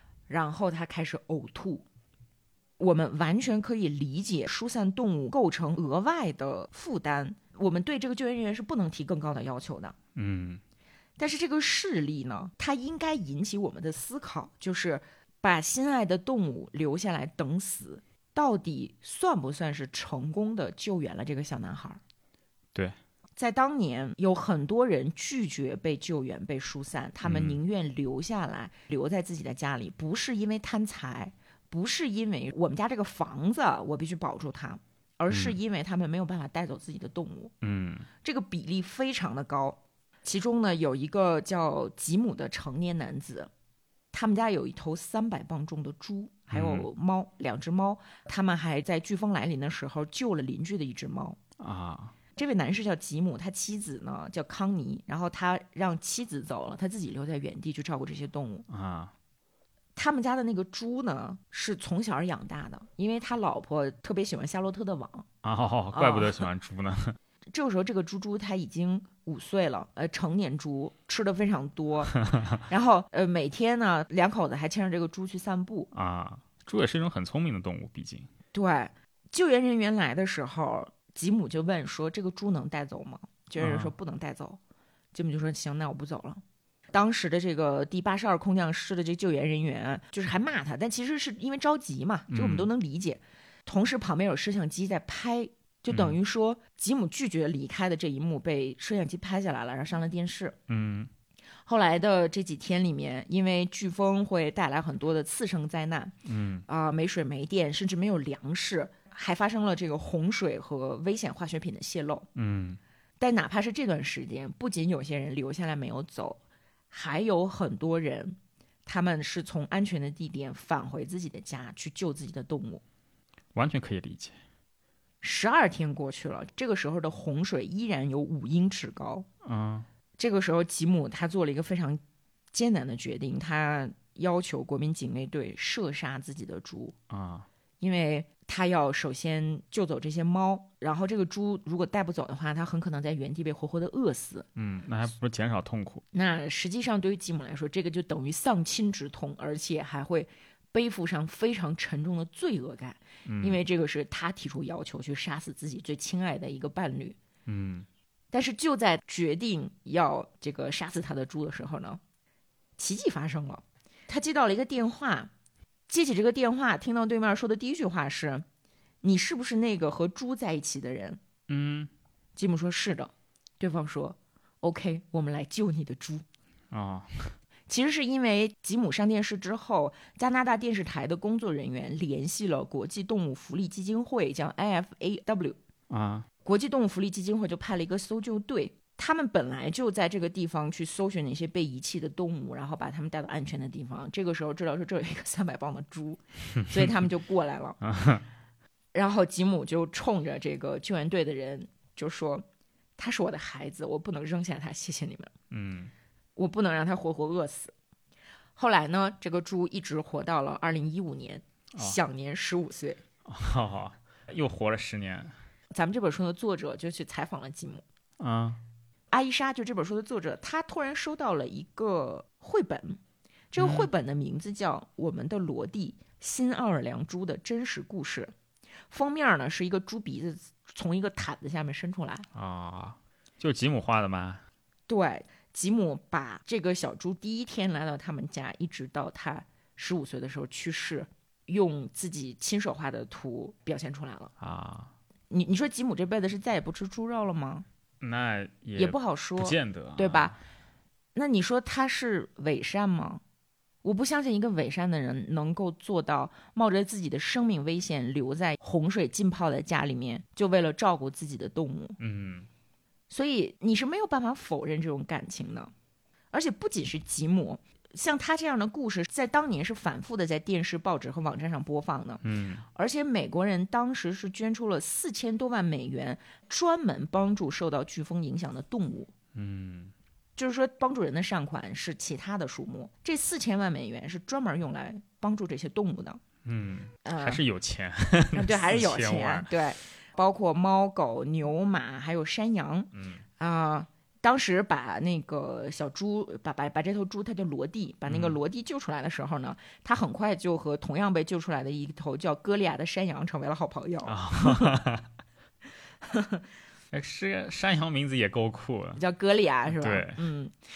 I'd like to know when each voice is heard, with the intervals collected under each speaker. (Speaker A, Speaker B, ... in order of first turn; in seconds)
Speaker A: 0.3-1.9, 2.8-9.9, 11.2-22.0, 23.4-37.5, 38.2-43.5, 44.1-51.4, 52.4-58.7, 60.0-65.3, 65.9-66.5, 67.5-75.9, 78.5-84.6, 85.1-100.6, 101.7-106.2, 106.7-112.3, 113.2-116.4, 116.9-122.8, 125.2-129.3, 130.2-132.0, 132.5-136.9, 137.8-144.5, 146.1-157.2, 158.3-162.0, 162.8-165.3, 165.9-168.4, 169.0-171.2, 172.4-176.2, 177.7-185.6, 186.4-197.8, 198.9-202.4, 203.0-205.3, 206.4-207.7, 208.6-213.0, 215.7-217.8, 219.1-223.0, 223.5-228.3, 228.9-232.3, 234.9-244.3, 245.3-247.7, 248.8-250.4, 251.2-253.2, 253.8-262.0, 263.1-265.7, 266.3-272.2, 272.7-279.1, 280.4-286.2, 287.1-287.4, 288.3-304.8, 306.1-306.4, 309.0-310.5
Speaker B: 10.2-10.6, 27.2-27.6, 35.3-35.6, 37.6-38.1, 46.5-46.9, 51.6-52.1, 58.7-59.1, 65.4-67.2, 75.9-78.3, 83.6-83.9, 92.3-92.7, 95.9-96.2, 100.7-101.1, 106.2-106.7, 112.3-112.8, 123.5-124.4, 129.4-129.9, 137.1-137.5, 144.6-146.1, 153.3-153.6, 157.5-157.9, 171.5-171.9, 176.7-177.3, 185.9-186.3, 197.8-198.2, 205.5-205.9, 213.2-215.3, 218.2-218.6, 223.6-223.9, 232.3-234.4, 244.4-244.9, 248.0-250.4, 262.0-262.5, 272.2-272.6, 279.3-279.9, 286.4-289.6, 292.9-293.2, 298.1-298.4, 304.1-305.1, 306.9-309.0, 309.7-310.2